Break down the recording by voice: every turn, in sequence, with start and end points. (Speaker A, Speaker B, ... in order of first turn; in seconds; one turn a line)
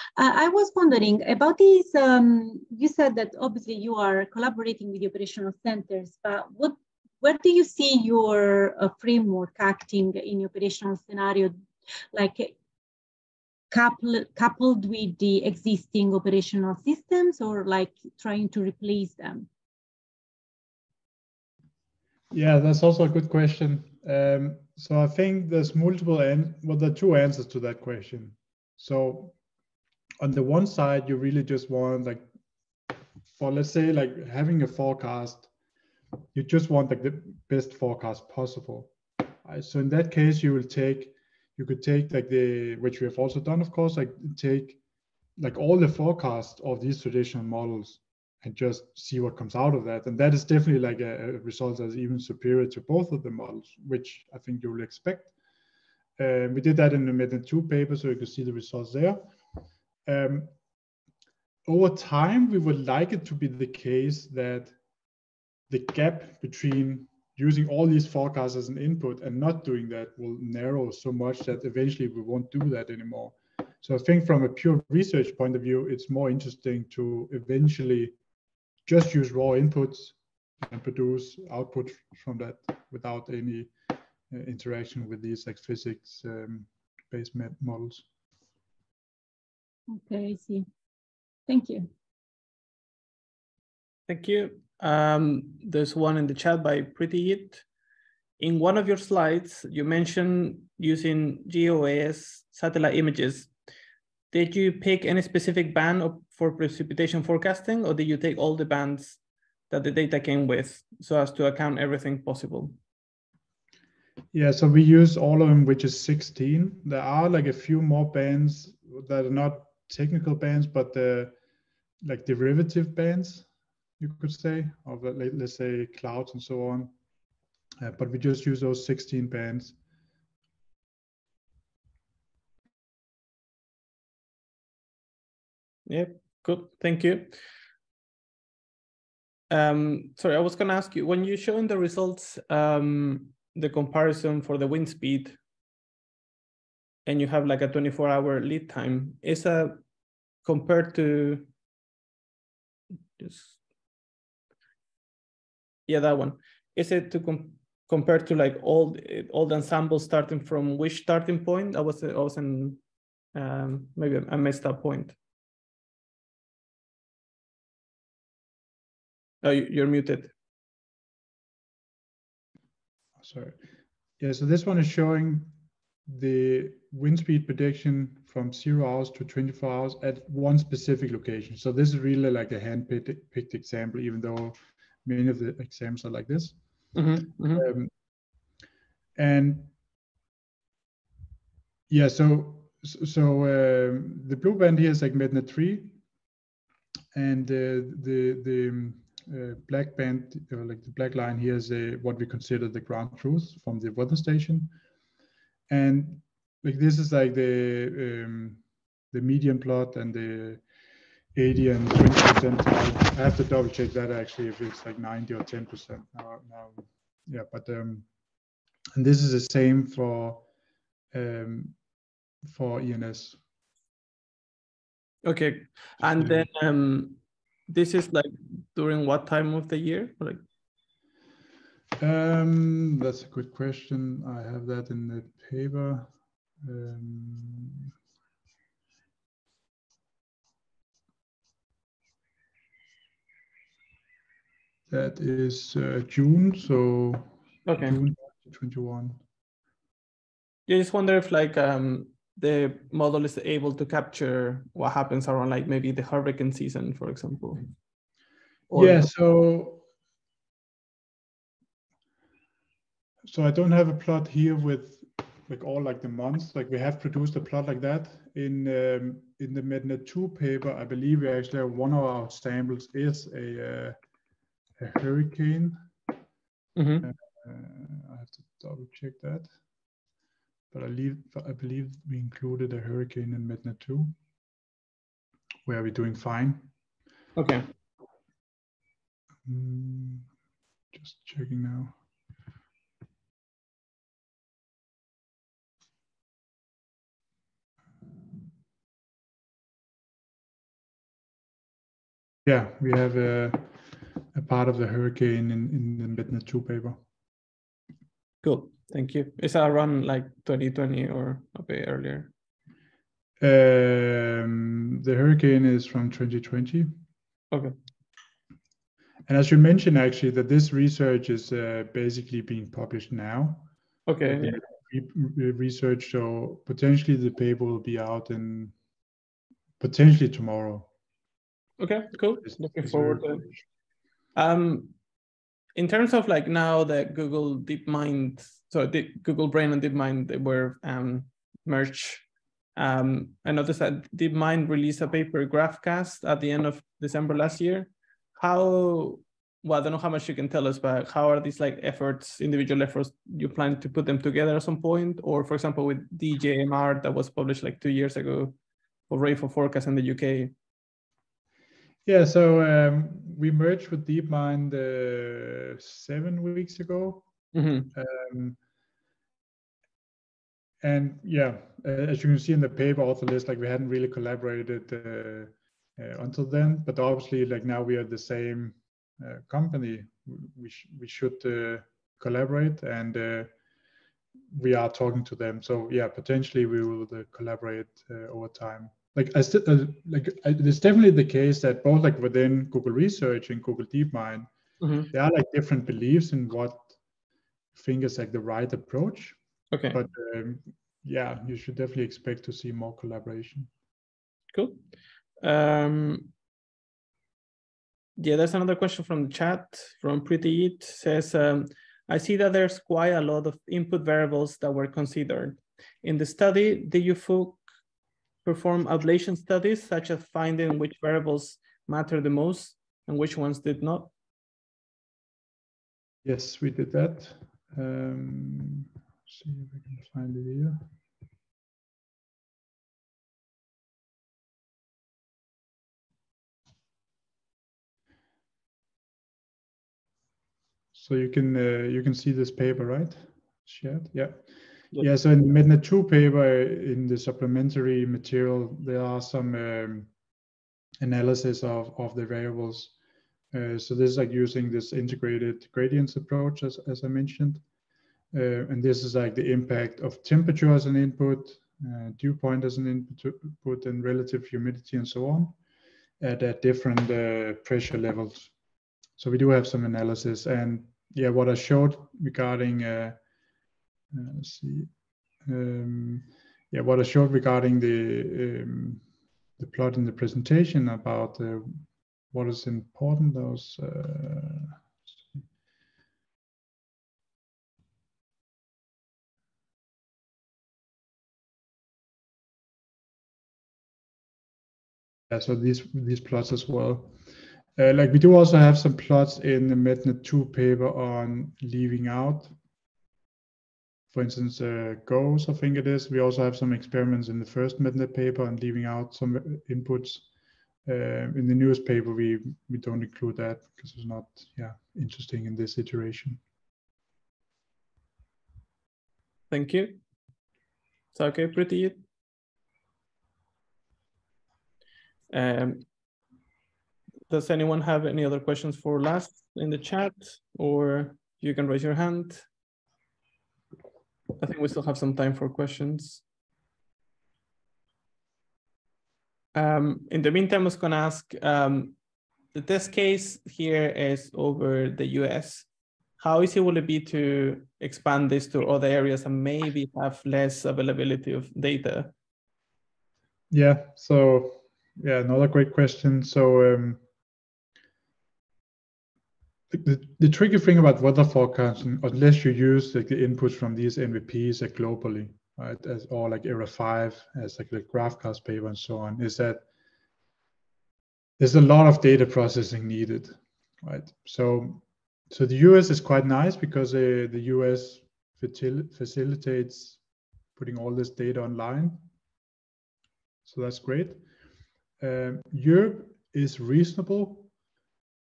Speaker A: 0.1-11.5
Speaker A: 12.1-12.6
Speaker A: 13.7-19.5
Speaker B: 22.3-29.4
Speaker B: 30.2-32.2
Speaker B: 33.3-35.5
Speaker B: 36.3-38.9
Speaker B: 39.4-44.8
Speaker B: 45.4-55.3
Speaker B: 56.2-59.2
Speaker B: 60.0-60.5
Speaker B: 61.7-64.8
Speaker B: 65.7-78.2
Speaker B: 78.8-83.7
Speaker B: 84.3-88.0
Speaker A: 89.9-90.7
Speaker A: 91.5-91.9
Speaker C: 94.1-97.6
Speaker C: 98.4-103.5
Speaker C: 104.3-112.8
Speaker B: 114.3-121.3
Speaker B: 122.0-123.5
Speaker B: 124.0-126.9
Speaker B: 127.8-129.8
Speaker C: 135.8-137.3
Speaker C: 139.5-145.4
Speaker C: 147.0-149.8
Speaker C: 150.4-151.5
Speaker C: 153.2-153.6
Speaker C: 155.9-162.8
Speaker C: 163.3-165.2
Speaker C: 169.4-170.3
Speaker B: 173.2-173.5
Speaker B: 174.2-175.5
Speaker B: 176.1-186.6
Speaker C: 186.9-187.7
Speaker B: 187.5-187.9
Speaker B: 189.2-189.7
Speaker B: 191.9-196.0
Speaker B: 197.1-204.7
Speaker B: 205.7-210.6
Speaker B: 211.3-218.1
Speaker B: 218.9-220.4
Speaker B: 221.1-221.8
Speaker B: 222.4-223.4
Speaker C: 225.2-230.4
Speaker B: 226.0-226.5
Speaker B: 232.0-236.1
Speaker B: 236.6-237.9
Speaker B: 244.9-249.2
Speaker C: 247.7-248.0
Speaker C: 250.7-257.7
Speaker C: 258.7-259.0
Speaker B: 258.7-259.8
Speaker B: 263.2-273.9
Speaker B: 274.8-275.8
Speaker C: 276.8-277.1
Speaker B: 277.0-279.5
Speaker B: 280.7-284.1
Speaker B: 285.6-286.7
Speaker C: 287.4-287.6
Speaker B: 289.5-290.3
Speaker B: 290.9-291.9
Speaker B: 302.4-307.0
Speaker C: 308.4-312.3
Speaker B: 313.4-316.9
Speaker B: 319.3-323.7
Speaker C: 324.1-324.6
Speaker B: 324.2-328.7
Speaker B: 329.8-330.9
Speaker C: 331.8-333.4
Speaker B: 332.4-333.6
Speaker C: 334.3-334.9
Speaker C: 335.7-358.6
Speaker C: 359.1-360.5
Speaker B: 362.0-367.2
Speaker C: 367.5-367.9
Speaker B: 367.9-368.6
Speaker B: 370.8-383.5
Speaker B: 384.5-394.5
Speaker C: 394.8-395.1
Speaker B: 395.1-396.9
Speaker B: 397.7-399.4
Speaker C: 399.7-400.0
Speaker B: 399.9-403.7
Speaker C: 404.5-404.8
Speaker C: 405.4-406.3
Speaker C: 408.2-417.6
Speaker C: 418.4-424.1
Speaker B: 426.2-430.9
Speaker B: 440.9-450.1
Speaker B: 451.0-452.9
Speaker B: 453.5-457.6
Speaker B: 458.3-465.5
Speaker B: 466.2-468.5
Speaker B: 469.2-473.2
Speaker B: 474.1-474.9
Speaker B: 475.4-479.0
Speaker B: 479.6-485.1
Speaker B: 495.3-497.1
Speaker B: 497.8-502.5
Speaker B: 504.1-510.2
Speaker B: 510.8-516.4
Speaker C: 519.5-520.0
Speaker C: 521.1-522.0
Speaker C: 525.3-525.8
Speaker C: 527.3-532.5
Speaker C: 534.4-536.2
Speaker C: 539.5-541.9
Speaker C: 542.5-545.7
Speaker C: 546.2-552.1
Speaker B: 553.5-557.0
Speaker B: 559.7-569.6
Speaker B: 571.4-580.0
Speaker B: 580.5-582.0
Speaker B: 583.4-584.2
Speaker B: 585.0-587.5